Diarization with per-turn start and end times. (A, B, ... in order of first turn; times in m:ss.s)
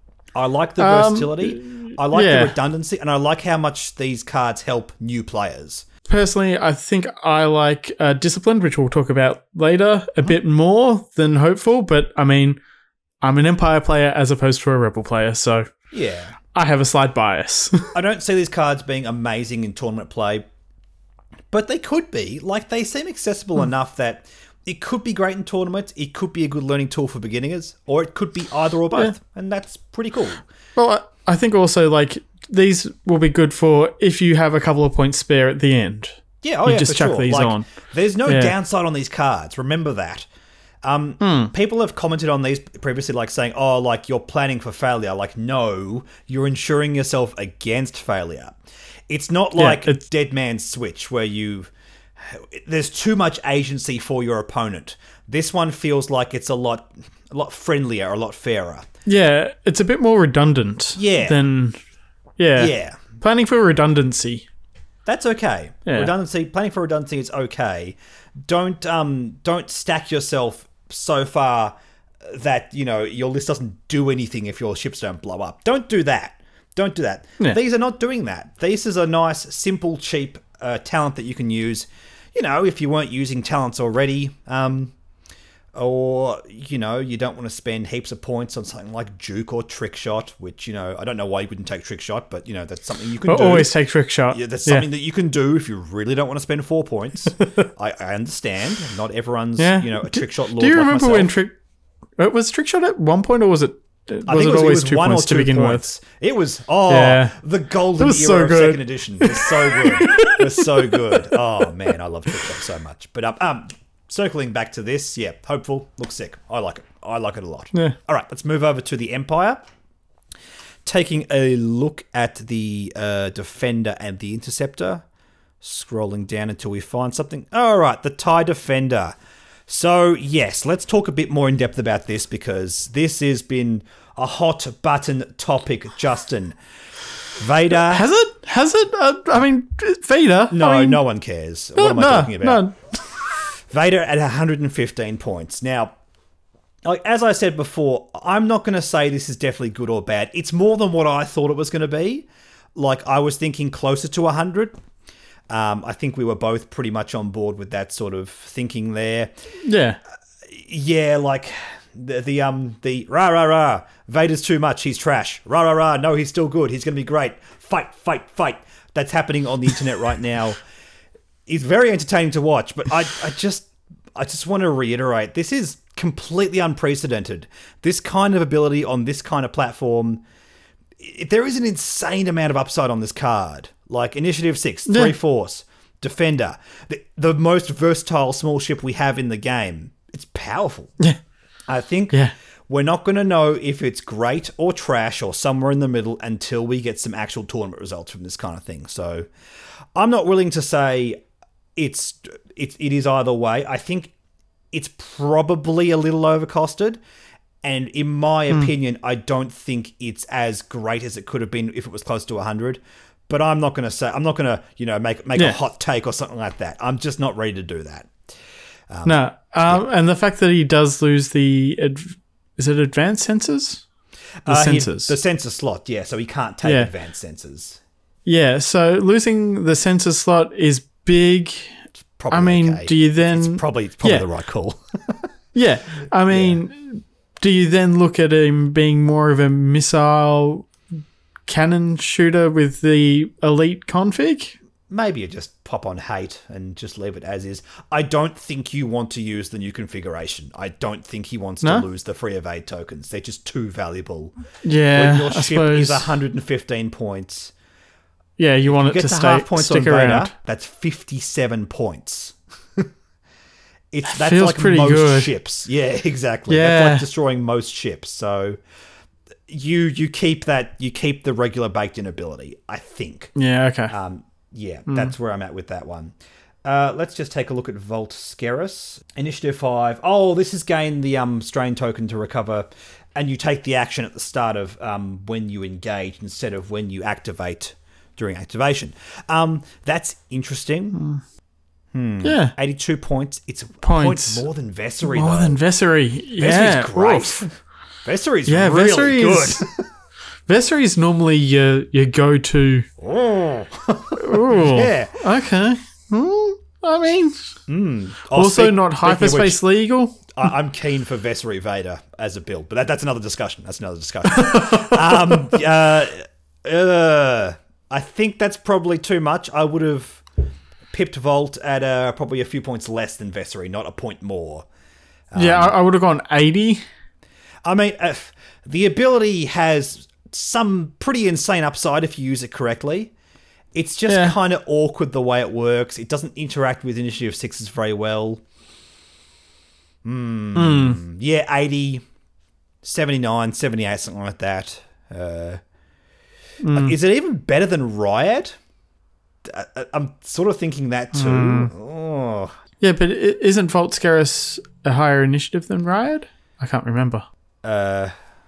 0:00.3-0:05.8 A
0:00.8-0:02.5 B
0:06.1-0:12.6 B
0:13.2-0:15.7 B
0:15.9-0:16.4 A
0:16.5-0:17.9 B
0:17.9-0:20.4 A
0:21.5-0:30.4 A
0:30.8-0:37.6 B
0:36.4-0:40.2 A
0:38.2-0:38.5 B
0:40.8-0:48.6 A
0:41.2-0:41.5 B
0:49.1-0:58.8 A
0:49.6-0:50.0 B
0:59.0-1:01.8 B
1:01.0-1:01.4 A
1:02.4-1:04.5 B
1:02.6-1:03.0 A
1:05.0-1:08.0 A
1:05.8-1:06.1 B
1:08.5-1:24.9 A
1:25.7-1:33.7 A
1:33.2-1:34.9 B
1:34.3-1:41.3 A
1:39.6-1:41.6 B
1:42.2-1:45.8 B
1:44.3-1:59.6 A
1:46.9-1:47.4 B
1:48.0-1:51.7 B
2:00.8-2:05.0 A
2:05.6-2:09.1 A
2:09.7-2:16.5 A
2:17.4-2:18.0 A
2:17.7-2:21.0 B
2:20.5-2:22.7 A
2:21.8-2:22.7 B
2:23.7-2:25.9 A
2:26.8-2:34.8 A
2:35.5-2:39.3 A
2:39.6-2:40.0 B
2:40.5-2:50.6 A
2:51.5-3:00.2 A
3:01.0-3:11.0 A
3:04.9-3:05.1 B
3:11.7-3:12.2 A
3:12.7-3:19.3 A
3:19.9-3:21.2 A
3:21.8-3:24.1 A
3:24.7-3:27.0 A
3:27.6-3:38.1 A
3:38.9-3:39.8 A
3:39.0-3:43.8 B
3:44.4-3:47.8 A
3:44.5-3:45.1 B
3:46.6-3:46.9 B
3:48.2-3:54.2 B
3:52.2-3:55.2 A
3:55.5-4:00.7 B
3:56.2-3:56.6 A
4:01.4-4:04.6 B
4:04.9-4:14.3 A
4:14.6-4:16.1 B
4:14.9-4:17.5 A
4:18.4-4:20.3 B
4:18.6-4:22.9 A
4:23.9-4:28.6 A
4:24.0-4:25.3 B
4:26.5-4:27.0 B
4:29.5-4:33.3 A
4:33.3-4:33.9 B
4:33.9-4:36.1 A
4:36.6-4:51.0 A
4:50.9-4:51.2 B
4:51.9-4:55.6 A
4:52.2-4:52.5 B
4:53.8-4:54.4 B
4:55.0-4:57.4 B
4:56.4-4:57.5 A
4:58.0-4:59.9 A
4:58.4-4:59.6 B
5:00.5-5:02.9 B
5:03.0-5:05.2 A
5:04.2-5:07.6 B
5:07.7-5:09.6 A
5:08.3-5:10.3 B
5:10.3-5:20.2 A
5:14.4-5:15.4 B
5:20.9-5:24.6 A
5:25.3-5:25.7 A
5:25.4-5:26.8 B
5:27.6-5:33.1 A
5:33.7-5:38.4 A
5:34.1-5:34.3 B
5:40.0-5:42.0 A
5:40.5-5:41.0 B
5:42.8-5:45.6 A
5:46.6-5:47.0 B
5:46.7-5:48.6 A
5:49.4-5:52.6 A
5:51.1-5:51.7 B
5:52.8-5:57.2 B
5:57.6-5:58.1 A